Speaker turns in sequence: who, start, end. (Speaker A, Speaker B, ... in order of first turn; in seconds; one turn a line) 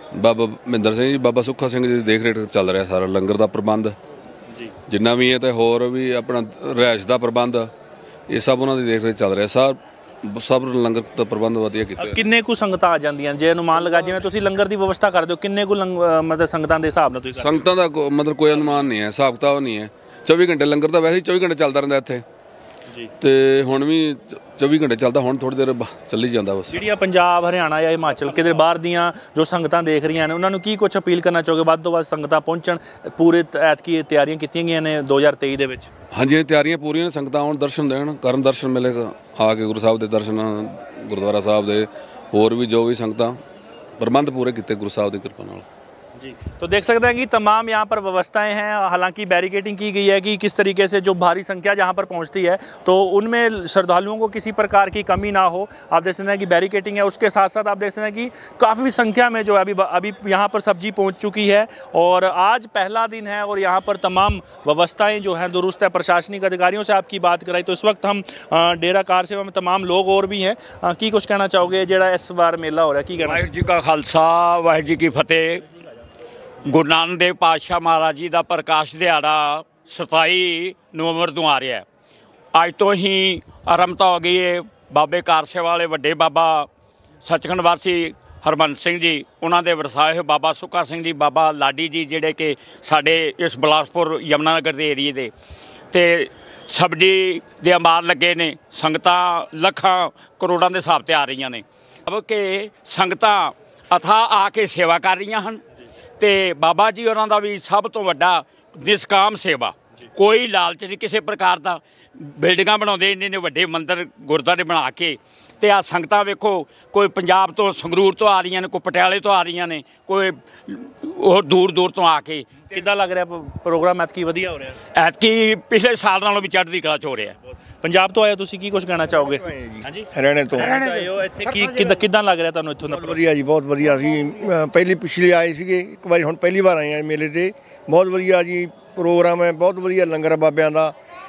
Speaker A: 0.1-4.0
Speaker A: 4.9-7.7
Speaker A: 8.3-12.2
Speaker B: 12.0-17.7
Speaker A: 17.4-22.2
Speaker A: 23.2-26.8
Speaker B: 26.7-35.9
Speaker A: 36.1-43.4
Speaker A: 44.0-45.7
Speaker B: 46.2-73.5
Speaker C: 73.2-75.6
Speaker C: 76.7-81.8
Speaker C: 82.5-86.7
Speaker C: 87.2-95.3
Speaker C: 95.9-105.6
Speaker C: 106.2-122.7
Speaker B: 122.7-124.8
Speaker C: 125.0-127.3
Speaker B: 127.8-133.2
Speaker D: 129.2-130.8
Speaker D: 132.9-140.9